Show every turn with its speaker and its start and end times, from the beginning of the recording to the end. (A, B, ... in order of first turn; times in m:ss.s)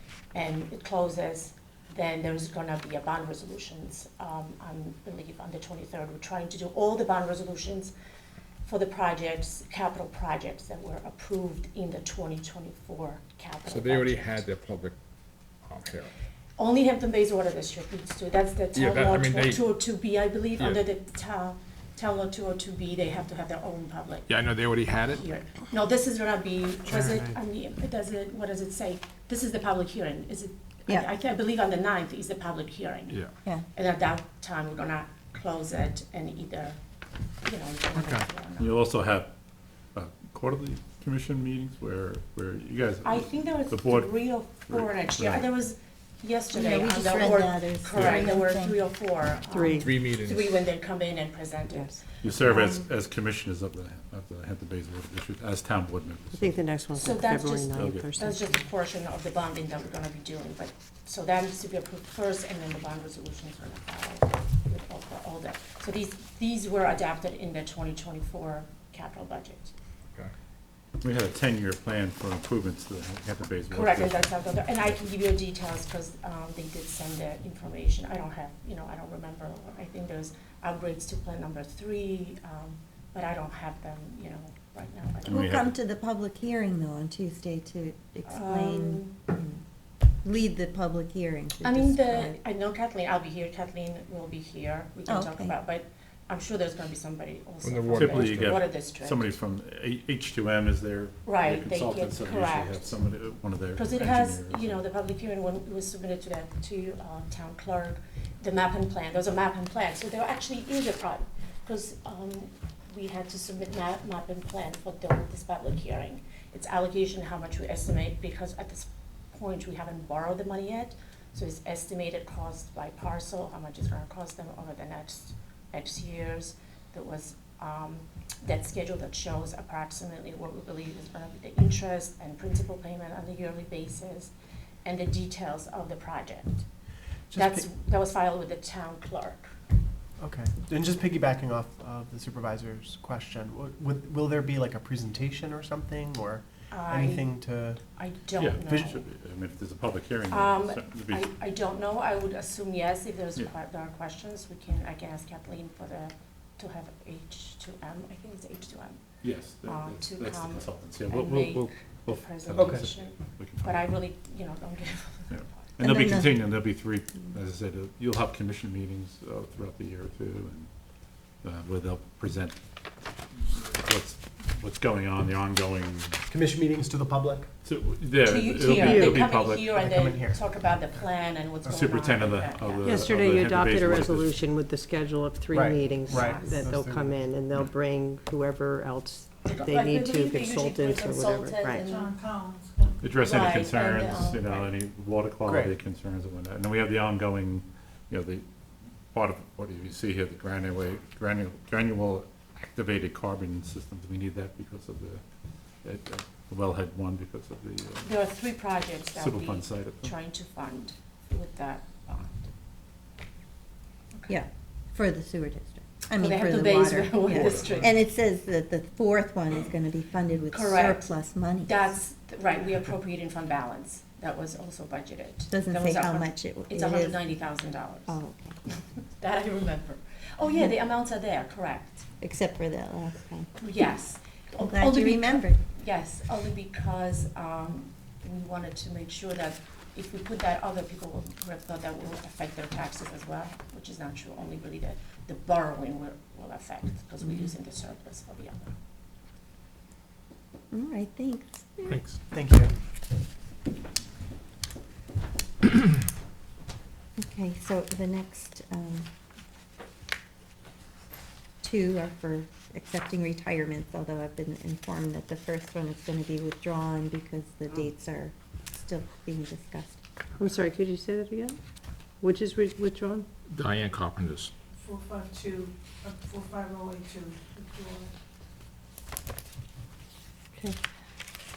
0:00.3-0:07.9 A
0:08.6-0:14.4 A
0:13.6-0:14.9 B
0:15.6-0:16.1 B
0:16.6-0:24.3 A
0:18.7-0:19.6 B
0:24.3-0:25.2 B
0:25.0-0:33.2 A
0:26.8-0:27.4 C
0:33.7-0:36.8 A
0:37.4-0:38.8 A
0:38.0-0:38.2 B
0:38.6-0:39.3 D
0:39.9-0:45.5 D
0:43.0-0:52.0 A
0:46.5-0:48.8 E
0:49.5-0:49.9 F
0:49.8-0:50.5 B
0:51.7-0:52.5 F
0:52.2-0:56.6 D
0:56.3-0:58.6 F
0:56.9-1:09.7 A
0:57.8-0:58.0 D
1:11.0-1:15.1 D
1:13.7-1:25.7 A
1:25.2-1:25.7 D
1:25.2-1:29.6 E
1:28.3-1:29.2 A
1:30.2-1:32.4 E
1:31.6-1:39.4 A
1:35.0-1:35.5 E
1:37.6-1:38.6 B
1:38.0-1:44.8 D
1:41.2-1:42.9 A
1:43.8-2:14.3 A
2:14.8-2:16.6 A
2:17.3-2:17.7 C
2:17.3-2:19.5 A
2:20.2-2:27.8 C
2:26.7-2:29.0 A
2:28.4-2:31.3 D
2:28.6-2:28.9 C
2:30.3-2:39.0 A
2:39.2-2:44.0 D
2:39.6-2:45.6 A
2:42.5-2:42.8 C
2:45.3-2:50.7 D
2:45.8-2:46.4 E
2:51.4-2:52.6 D
2:53.3-2:56.2 D
2:56.3-2:57.5 C
2:57.6-2:59.7 D
2:58.2-3:03.0 A
2:58.8-2:59.3 F
2:59.6-3:01.1 C
3:01.6-3:02.0 C
3:01.7-3:04.3 D
3:02.8-3:11.9 F
3:05.5-3:07.2 C
3:05.8-3:06.7 A
3:09.4-3:12.2 A
3:11.8-3:13.0 G
3:13.0-3:18.4 D
3:13.2-3:14.7 A
3:15.4-3:15.8 C
3:19.1-3:25.2 D
3:25.8-3:28.1 D
3:28.0-3:32.5 A
3:29.2-3:30.1 D
3:34.3-3:41.8 E
3:36.1-3:38.0 A
3:37.4-3:37.8 D
3:40.5-3:48.2 A
3:45.5-3:47.2 E
3:48.1-3:48.6 E
3:49.2-3:52.0 A
3:52.2-3:53.6 E
3:53.6-4:08.8 A
3:54.6-3:55.6 E
4:10.7-4:12.0 E
4:11.9-4:12.1 B
4:12.3-4:12.7 C
4:17.2-4:19.1 E
4:21.6-4:30.0 E
4:30.4-4:31.6 F
4:32.2-4:33.3 F
4:33.5-4:34.5 B
4:34.8-4:38.1 G